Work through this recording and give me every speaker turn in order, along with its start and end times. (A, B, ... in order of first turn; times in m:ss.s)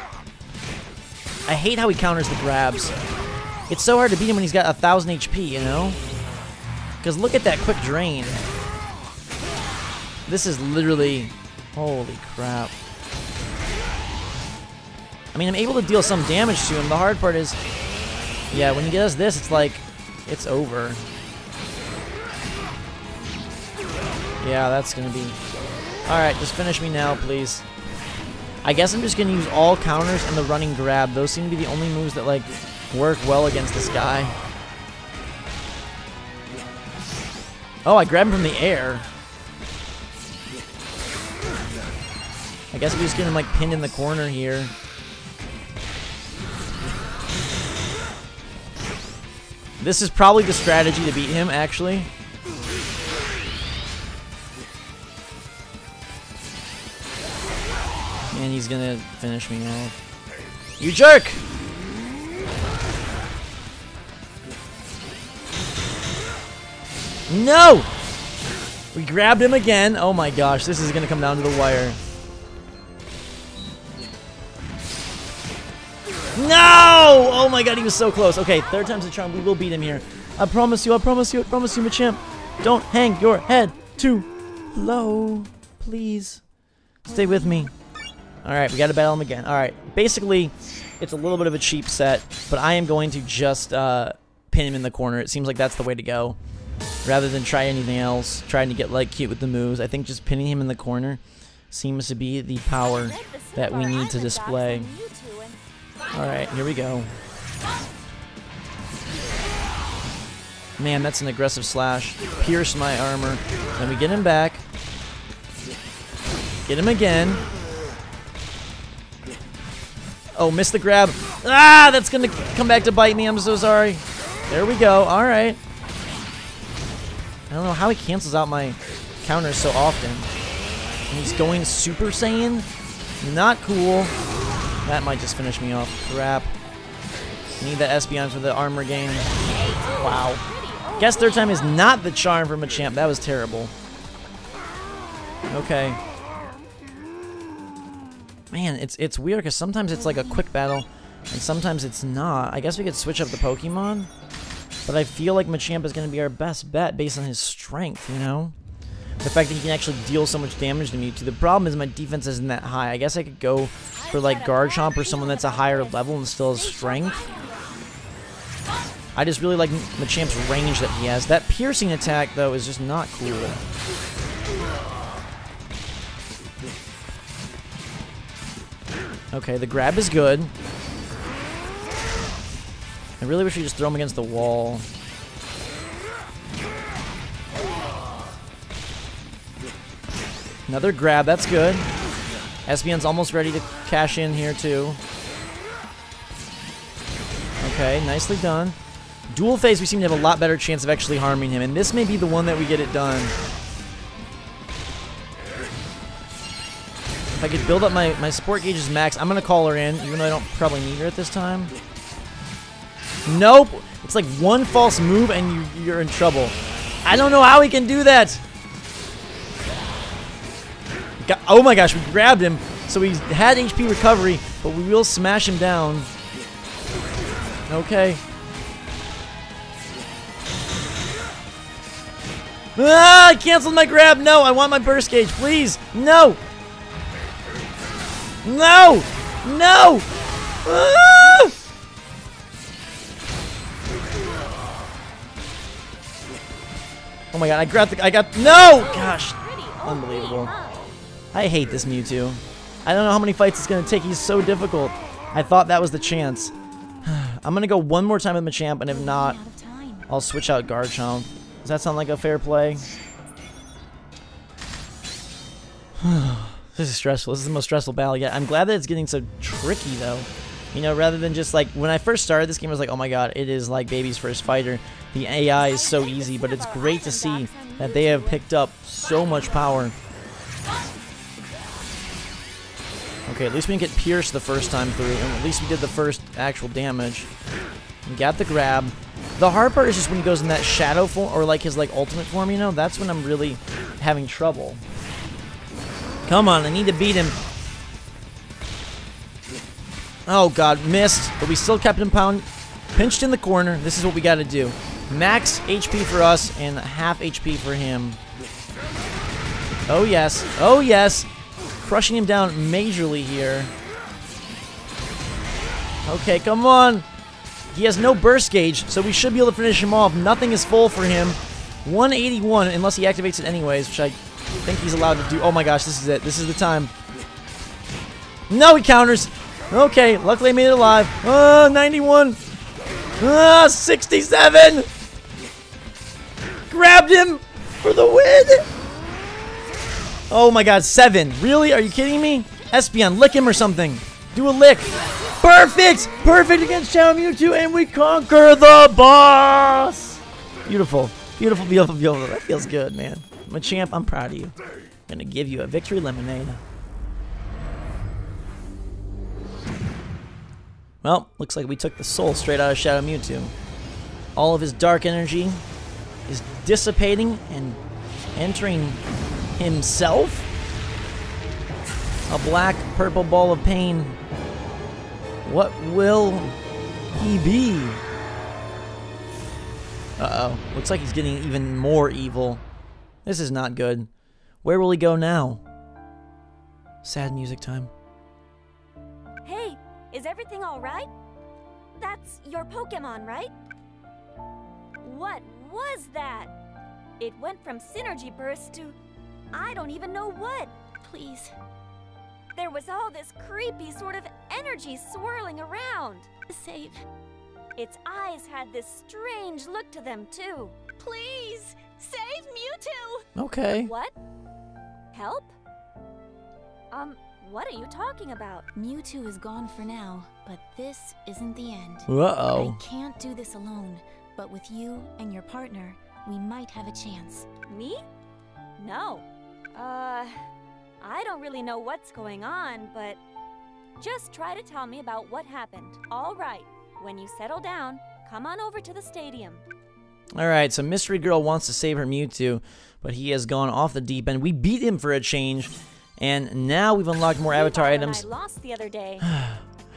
0:01.5-0:03.0 A
0:03.7-0:06.0 A
0:07.0-0:08.4 A
0:10.3-0:12.8 A
0:15.3-0:17.6 A
0:18.5-0:21.0 A
0:24.4-0:25.4 A
0:26.1-0:27.6 A
0:28.6-0:34.4 A
0:37.8-0:39.1 A
0:42.7-0:44.7 A
0:49.8-0:52.1 A
0:58.3-1:00.0 A
1:00.8-1:01.4 A
1:07.3-1:07.9 A
1:08.9-1:12.0 A
1:16.4-1:26.4 A
1:27.0-1:27.7 A
1:28.4-1:36.4 A
1:37.0-1:44.9 A
1:42.9-1:45.6 B
1:46.1-1:47.1 A
1:50.8-1:54.6 A
1:56.7-1:57.4 A
2:00.4-2:05.6 A
2:07.5-2:10.3 A
2:11.1-2:12.7 A
2:13.2-2:14.1 A
2:14.8-2:16.5 A
2:17.6-2:19.3 A
2:19.4-2:22.0 B
2:20.0-2:20.4 A
2:21.0-2:23.7 A
2:25.5-2:26.0 A
2:28.5-2:34.1 A
2:34.9-2:38.6 A
2:39.2-2:47.3 A
2:44.0-2:47.8 B
2:49.2-2:53.6 A
2:59.3-3:00.5 A
3:03.2-3:04.9 A
3:10.7-3:11.9 A
3:12.7-3:15.0 A
3:17.6-3:18.8 A
3:19.3-3:23.4 A
3:27.3-3:31.7 A
3:33.3-3:38.4 A
3:41.2-3:46.1 A
3:47.7-3:48.2 A
3:52.8-3:56.4 A
3:58.4-4:00.1 A
4:00.6-4:01.6 A
4:07.3-4:10.5 A
4:08.4-4:10.9 B
4:11.3-4:19.4 A
4:18.9-4:20.1 C
4:20.1-4:22.8 A
4:26.0-4:40.0 A
4:35.5-4:38.5 B
4:43.3-4:47.3 A
4:48.0-4:54.8 A
4:56.3-4:57.4 A
5:00.3-5:08.2 A
5:09.9-5:11.3 A
5:11.8-5:13.7 A
5:16.0-5:17.1 A
5:17.7-5:26.9 A
5:28.5-5:32.4 A
5:33.2-5:34.9 A
5:36.7-5:38.7 A
5:40.3-5:54.6 A
5:55.1-5:56.6 A
6:01.0-6:03.5 A
6:04.4-6:05.6 A
6:06.3-6:07.8 A
6:08.4-6:09.0 A
6:09.6-6:10.5 A
6:12.3-6:14.2 A
6:15.4-6:16.6 A
6:17.2-6:18.0 A
6:20.2-6:22.6 A
6:23.2-6:24.1 A
6:24.6-6:25.6 A
6:27.0-6:27.9 A
6:29.4-6:31.1 B
6:32.0-6:33.5 B
6:35.0-6:36.5 B
6:37.2-6:39.0 B
6:39.5-6:40.7 B
6:41.0-6:41.5 C
6:42.6-6:46.3 B
6:46.5-6:47.0 C
6:47.8-6:50.8 B
6:51.0-6:53.3 C
6:53.4-6:53.9 A
6:53.9-6:54.1 B
6:55.1-6:55.6 B
6:56.9-6:58.7 B
6:58.8-7:07.5 C
7:02.1-7:02.8 A
7:07.7-7:08.0 B
7:08.8-7:10.4 B
7:11.0-7:13.2 B
7:14.0-7:19.6 B
7:20.4-7:28.2 A
7:27.5-7:29.3 B
7:29.2-7:29.6 A